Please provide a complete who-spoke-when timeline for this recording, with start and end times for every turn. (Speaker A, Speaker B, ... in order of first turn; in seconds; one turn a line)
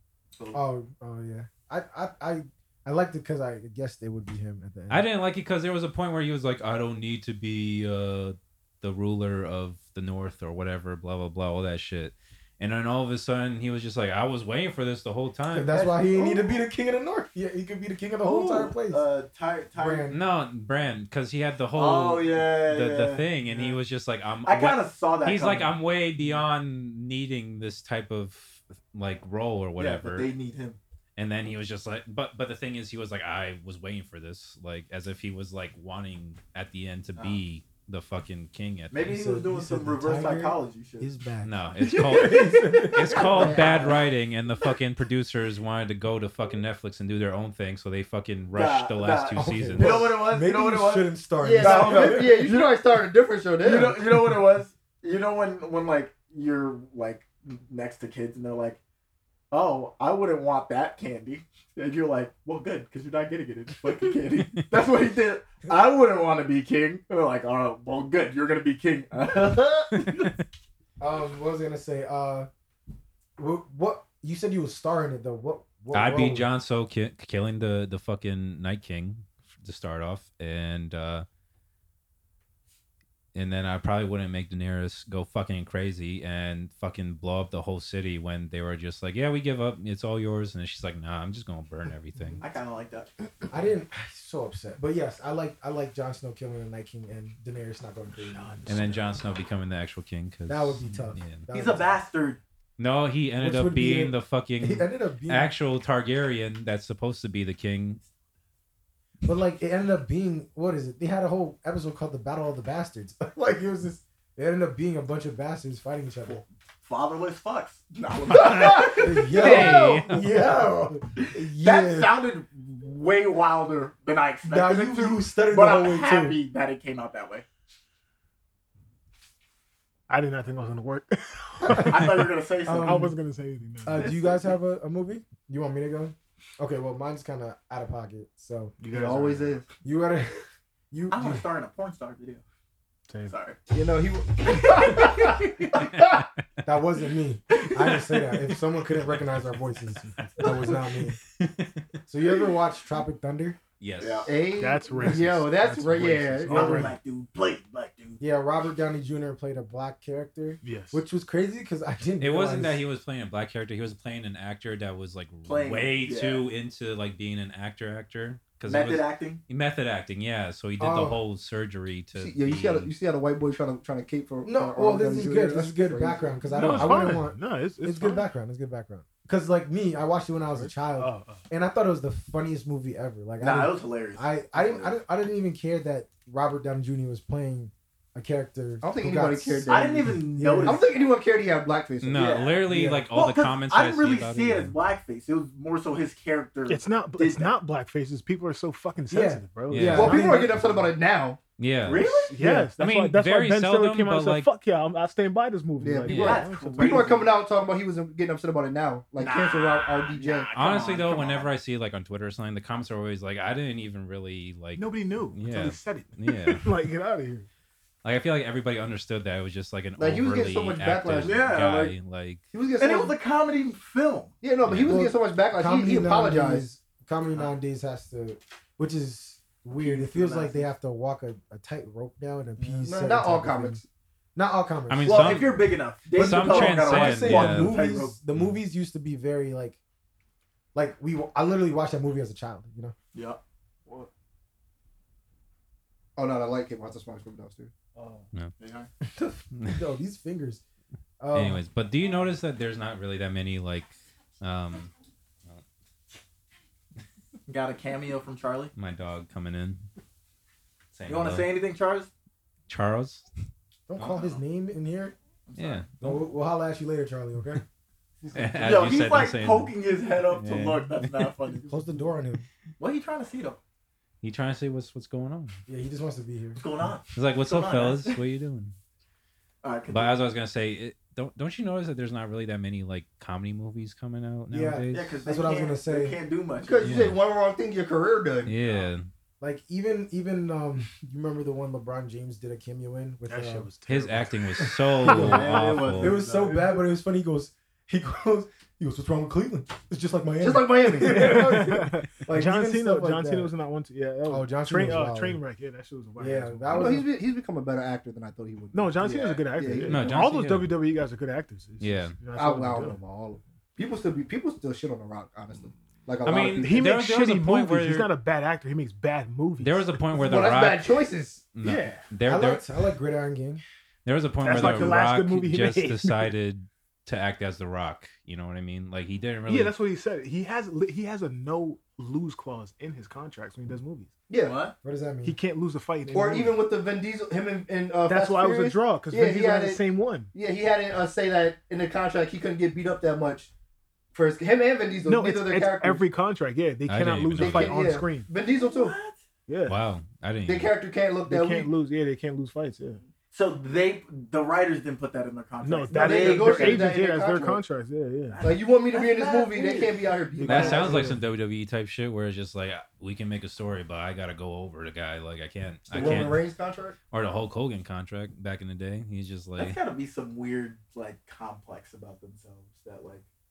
Speaker A: 0.5-5.0
Speaker B: 4.9-15.8
Speaker A: 15.5-19.0
Speaker C: 15.7-16.4
Speaker C: 18.2-20.1
Speaker A: 19.8-20.2
Speaker B: 20.1-30.3
Speaker C: 21.7-23.8
Speaker C: 24.4-26.4
Speaker C: 29.8-30.8
Speaker B: 31.1-39.0
Speaker C: 38.9-41.1
Speaker A: 39.0-43.9
Speaker B: 41.4-50.2
Speaker C: 41.8-43.9
Speaker D: 43.1-44.0
Speaker C: 48.5-52.8
Speaker A: 49.3-52.5
Speaker D: 51.4-54.0
Speaker C: 53.6-58.8
Speaker A: 54.0-54.4
Speaker C: 59.5-70.3
Speaker B: 69.9-70.4
Speaker A: 71.0-72.5
Speaker A: 73.4-76.5
Speaker B: 75.9-81.2
Speaker B: 83.3-92.4
Speaker C: 92.4-93.1
Speaker A: 93.5-98.5
Speaker E: 98.2-99.2
Speaker B: 98.7-101.4
Speaker A: 100.5-102.0
Speaker C: 101.5-102.4
Speaker B: 102.8-108.0
Speaker A: 103.4-105.5
Speaker A: 109.2-116.4
Speaker C: 116.2-119.8
Speaker D: 118.4-118.9
Speaker B: 118.4-120.4
Speaker A: 119.0-122.2
Speaker C: 121.2-127.4
Speaker A: 124.4-126.4
Speaker E: 130.1-134.4
Speaker A: 131.6-133.2
Speaker C: 131.8-133.1
Speaker A: 133.8-138.8
Speaker E: 138.8-139.6
Speaker D: 138.8-139.7
Speaker A: 139.8-141.4
Speaker C: 141.1-142.4
Speaker E: 143.1-143.3
Speaker C: 143.3-143.6
Speaker D: 143.7-146.0
Speaker C: 144.5-145.7
Speaker A: 146.6-151.2
Speaker B: 147.7-148.4
Speaker E: 150.1-150.6
Speaker B: 151.4-151.8
Speaker A: 152.1-153.6
Speaker B: 153.8-154.4
Speaker C: 154.0-154.3
Speaker D: 154.2-156.9
Speaker E: 154.5-156.9
Speaker C: 156.5-158.2
Speaker A: 158.2-162.8
Speaker E: 160.6-161.0
Speaker B: 162.2-172.9
Speaker C: 165.4-166.4
Speaker C: 168.6-169.4
Speaker A: 170.8-171.2
Speaker D: 172.1-176.5
Speaker A: 174.4-190.8
Speaker E: 176.5-178.3
Speaker E: 180.5-181.4
Speaker C: 183.4-185.0
Speaker D: 188.8-192.2
Speaker C: 189.7-191.0
Speaker B: 192.0-194.7
Speaker C: 192.1-197.5
Speaker A: 192.7-193.1
Speaker E: 196.7-200.8
Speaker A: 199.1-200.6
Speaker B: 199.7-200.2
Speaker D: 199.8-201.4
Speaker B: 201.6-204.5
Speaker C: 201.8-202.3
Speaker E: 202.3-207.2
Speaker A: 202.3-202.7
Speaker D: 205.8-210.5
Speaker C: 206.1-207.3
Speaker C: 209.2-211.5
Speaker B: 210.5-216.7
Speaker C: 214.7-215.3
Speaker E: 215.3-217.5
Speaker B: 218.0-222.4
Speaker D: 220.0-221.4
Speaker C: 221.2-221.9
Speaker D: 222.5-223.2
Speaker C: 222.8-224.3
Speaker D: 224.4-226.7
Speaker B: 224.6-225.0
Speaker A: 224.9-233.8
Speaker D: 230.0-230.6
Speaker D: 232.6-233.8
Speaker A: 234.3-235.5
Speaker B: 234.9-238.6
Speaker C: 235.1-238.2
Speaker A: 236.1-239.8
Speaker A: 240.7-242.9
Speaker C: 243.1-243.4
Speaker D: 246.2-247.7
Speaker C: 248.0-248.9
Speaker A: 249.1-250.6
Speaker A: 251.2-251.6
Speaker B: 251.3-254.9
Speaker C: 257.5-258.7
Speaker B: 258.7-259.9
Speaker B: 260.9-261.5
Speaker C: 261.1-262.1
Speaker B: 262.7-263.3
Speaker A: 263.9-265.1
Speaker C: 265.5-265.9
Speaker B: 265.6-266.2
Speaker A: 266.0-267.6
Speaker D: 268.2-268.9
Speaker B: 268.3-269.7
Speaker C: 268.6-272.0
Speaker B: 270.3-271.3
Speaker A: 271.7-272.4
Speaker C: 272.8-273.6
Speaker B: 274.2-275.6
Speaker A: 275.7-276.6
Speaker C: 276.6-278.1
Speaker B: 277.1-278.7
Speaker C: 279.6-280.2
Speaker B: 279.9-285.2
Speaker A: 284.5-286.2
Speaker C: 284.9-287.0
Speaker D: 286.6-288.5
Speaker B: 286.8-287.2
Speaker B: 288.4-289.1
Speaker A: 289.4-293.7
Speaker E: 293.3-295.8
Speaker B: 293.9-296.1
Speaker A: 295.1-303.5
Speaker C: 295.1-296.6
Speaker D: 300.4-301.9
Speaker E: 301.0-307.0
Speaker A: 304.2-305.4
Speaker A: 306.2-307.0
Speaker D: 306.7-310.2
Speaker E: 308.7-313.0
Speaker B: 309.9-310.7
Speaker B: 311.8-312.2
Speaker D: 312.3-316.9
Speaker B: 316.2-318.1
Speaker E: 316.2-320.0
Speaker B: 319.6-320.9
Speaker D: 320.1-321.4
Speaker B: 321.5-322.8
Speaker E: 321.6-322.1
Speaker A: 322.2-323.6
Speaker B: 324.0-329.7
Speaker E: 324.4-326.3
Speaker E: 329.5-334.1
Speaker D: 334.3-334.6
Speaker C: 334.4-334.7
Speaker A: 334.8-335.4
Speaker E: 335.2-336.6
Speaker D: 336.1-343.5
Speaker E: 338.1-340.3
Speaker D: 344.1-346.1
Speaker E: 345.0-348.3
Speaker B: 346.9-347.8
Speaker D: 347.4-348.9
Speaker C: 348.5-349.2
Speaker E: 349.5-349.8
Speaker B: 349.7-350.7
Speaker D: 350.4-351.7
Speaker E: 351.3-353.0
Speaker C: 353.3-356.9
Speaker E: 355.6-358.4
Speaker D: 355.9-357.6
Speaker C: 358.3-360.0
Speaker D: 358.4-361.0
Speaker E: 360.4-361.2
Speaker B: 360.4-366.4
Speaker D: 365.9-366.9
Speaker A: 366.0-366.2
Speaker B: 367.1-369.8
Speaker C: 369.6-373.2